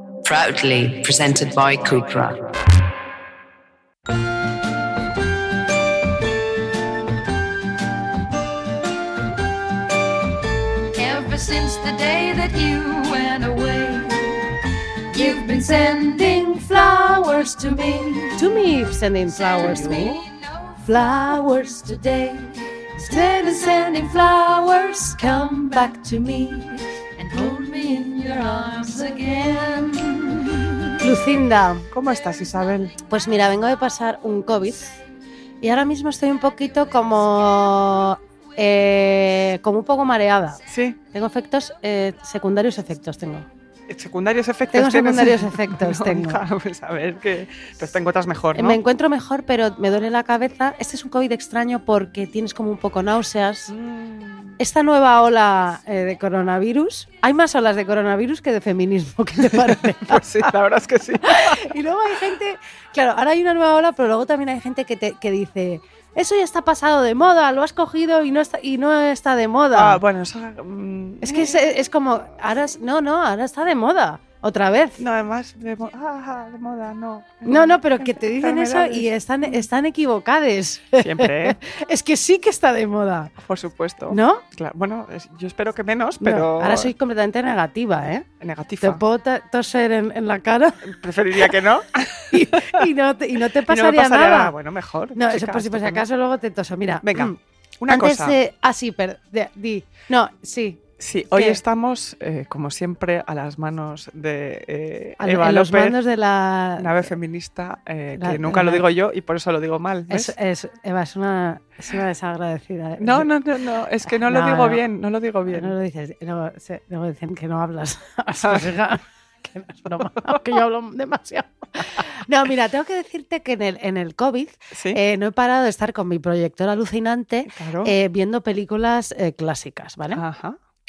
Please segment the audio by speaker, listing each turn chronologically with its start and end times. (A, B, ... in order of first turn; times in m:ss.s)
0:00.2-0:02.4 A
0:11.0-0:14.5 B
0:15.1-0:18.3 B
0:18.4-0:20.2 C
0:20.6-0:30.6 B
0:31.0-0:31.9 C
0:31.9-0:33.0 D
0:33.1-0:35.0 C
0:35.6-0:40.6 C
0:40.7-0:41.0 D
0:41.1-0:43.5 C
0:43.9-0:48.8 D
0:44.7-0:46.4 C
0:48.5-0:53.7 C
0:53.7-0:54.6 D
0:54.6-1:00.5 C
0:59.5-1:01.8 D
1:01.2-1:10.0 C
1:09.7-1:11.6 D
1:11.2-1:15.0 C
1:15.0-1:19.1 D
1:17.5-1:23.3 C
1:21.0-1:21.6 D
1:23.4-1:26.9 D
1:24.1-1:24.4 C
1:26.2-1:28.3 C
1:28.4-1:29.0 D
1:28.8-1:30.9 C
1:30.8-1:32.9 D
1:32.3-1:34.5 C
1:33.6-1:36.0 D
1:35.2-1:37.4 C
1:37.0-1:38.4 D
1:37.9-1:40.8 C
1:41.0-1:46.0 D
1:41.3-1:41.6 C
1:45.2-1:47.1 C
1:46.8-1:50.3 D
1:48.2-1:48.8 C
1:50.1-1:53.3 C
1:53.0-1:55.7 D
1:54.1-1:54.8 C
1:55.5-2:10.2 C
1:58.4-1:58.8 D
2:04.7-2:05.0 D
2:07.5-2:07.9 D
2:10.1-2:10.6 D